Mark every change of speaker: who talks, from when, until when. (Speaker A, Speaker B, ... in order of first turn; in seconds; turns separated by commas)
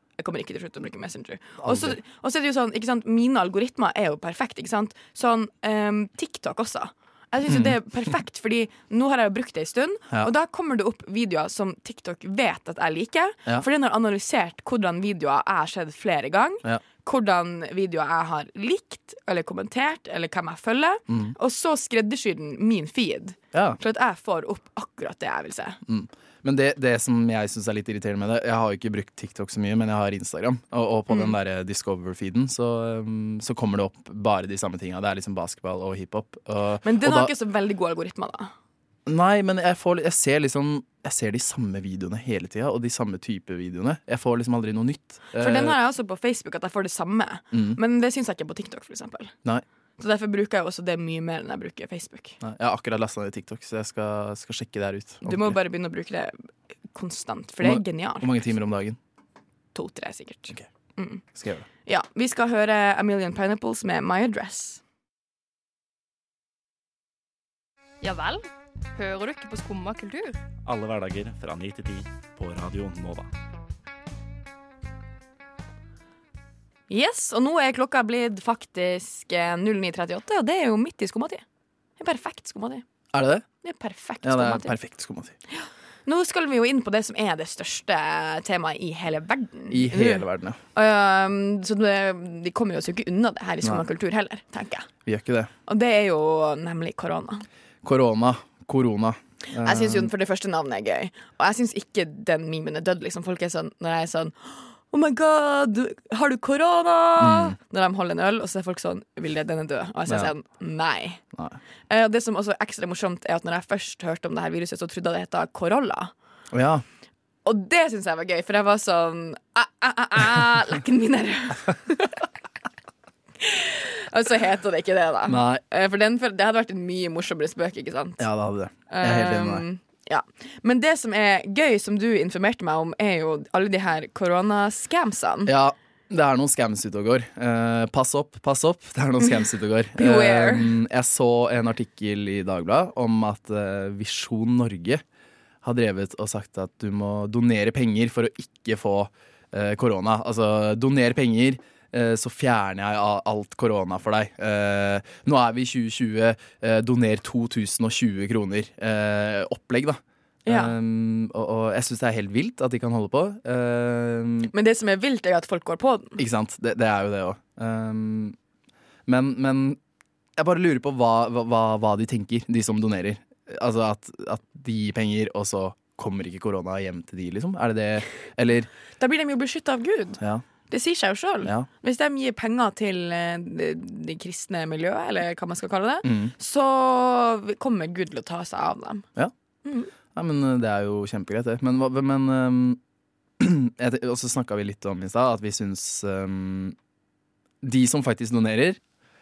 Speaker A: 0.2-25.8, Speaker B: 1.6-2.0, Speaker B: 7.5-7.8, Speaker B: 21.1-21.3, Speaker B: 23.5-23.8, Speaker B: 25.9-37.3, Speaker A: 36.8-38.5, Speaker B: 39.1-45.8, Speaker A: 45.3-49.3, Speaker B: 47.5-47.8, Speaker A: 50.0-52.4, Speaker B: 52.4-55.6, Speaker A: 55.2-56.4, Speaker A: 56.9-58.3, Speaker B: 57.6-59.0, Speaker A: 59.8-61.2, Speaker B: 61.3-61.7, Speaker A: 61.9-64.8, Speaker C: 68.0-70.4, Speaker D: 70.6-73.3, Speaker A: 76.9-81.4, Speaker A: 82.0-82.8, Speaker B: 83.1-83.5, Speaker A: 83.6-84.8, Speaker B: 84.2-85.3, Speaker A: 85.5-94.9, Speaker B: 89.7-90.6, Speaker B: 95.1-95.5, Speaker A: 95.7-97.5, Speaker B: 97.8-100.1, Speaker A: 99.5-111.2, Speaker B: 107.2-107.6, Speaker A: 111.9-116.1, Speaker B: 116.5-116.8, Speaker A: 117.5-122.2, Speaker A: 123.4-128.2, Speaker B: 125.3-125.6, Speaker B: 128.2-129.7, Speaker A: 128.9-135.5, Speaker B: 135.5-145.0, Speaker A: 140.0-140.7, Speaker B: 145.6-164.5, Speaker A: 160.5-160.7, Speaker A: 164.5-166.2, Speaker B: 166.2-168.4, Speaker B: 169.1-169.8, Speaker B: 170.4-178.7, Speaker A: 179.0-189.1, Speaker B: 181.4-181.7, Speaker B: 186.0-186.3, Speaker A: 189.7-189.9, Speaker B: 190.1-192.8, Speaker B: 193.4-196.8, Speaker B: 197.6-198.8